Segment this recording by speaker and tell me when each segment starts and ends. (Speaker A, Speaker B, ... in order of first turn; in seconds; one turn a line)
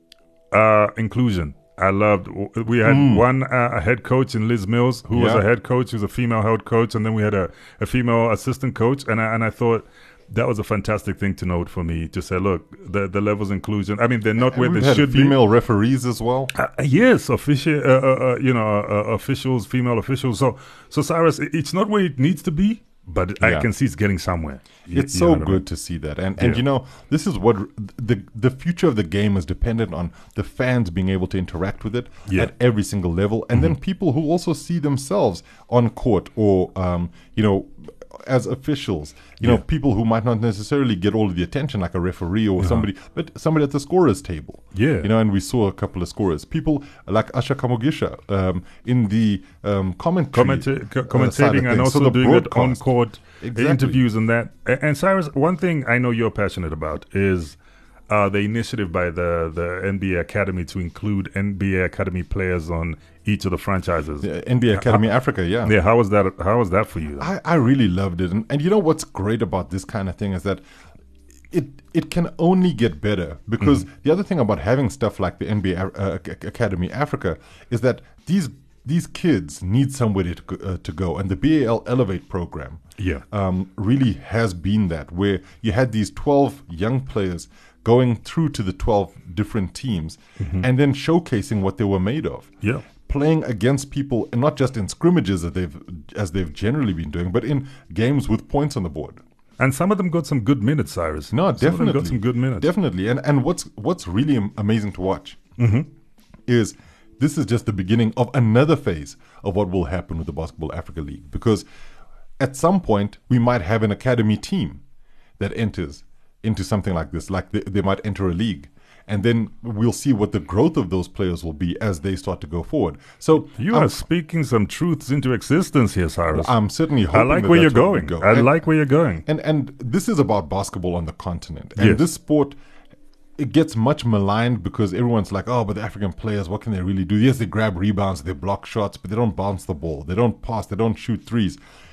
Speaker A: 0.5-15.4
Speaker B: 2.8-3.2
Speaker B: 5.1-5.4
Speaker B: 14.4-16.5
Speaker A: 16.5-25.6
Speaker B: 23.4-23.7
Speaker B: 24.9-52.8
Speaker A: 42.6-42.9
Speaker A: 44.7-45.1
Speaker A: 50.3-57.6
Speaker B: 53.4-54.0
Speaker A: 58.1-65.0
Speaker B: 64.2-65.8
Speaker A: 65.6-67.3
Speaker B: 67.2-70.6
Speaker B: 71.5-92.5
Speaker A: 83.0-83.2
Speaker A: 90.4-90.7
Speaker B: 93.1-99.2
Speaker A: 99.6-102.7
Speaker B: 101.3-105.4
Speaker A: 105.6-105.9
Speaker B: 106.5-111.7
Speaker B: 112.4-114.8
Speaker B: 115.4-124.0
Speaker A: 123.6-126.5
Speaker B: 126.3-128.6
Speaker A: 127.1-129.2
Speaker B: 129.3-132.6
Speaker A: 131.8-132.0
Speaker B: 133.4-141.6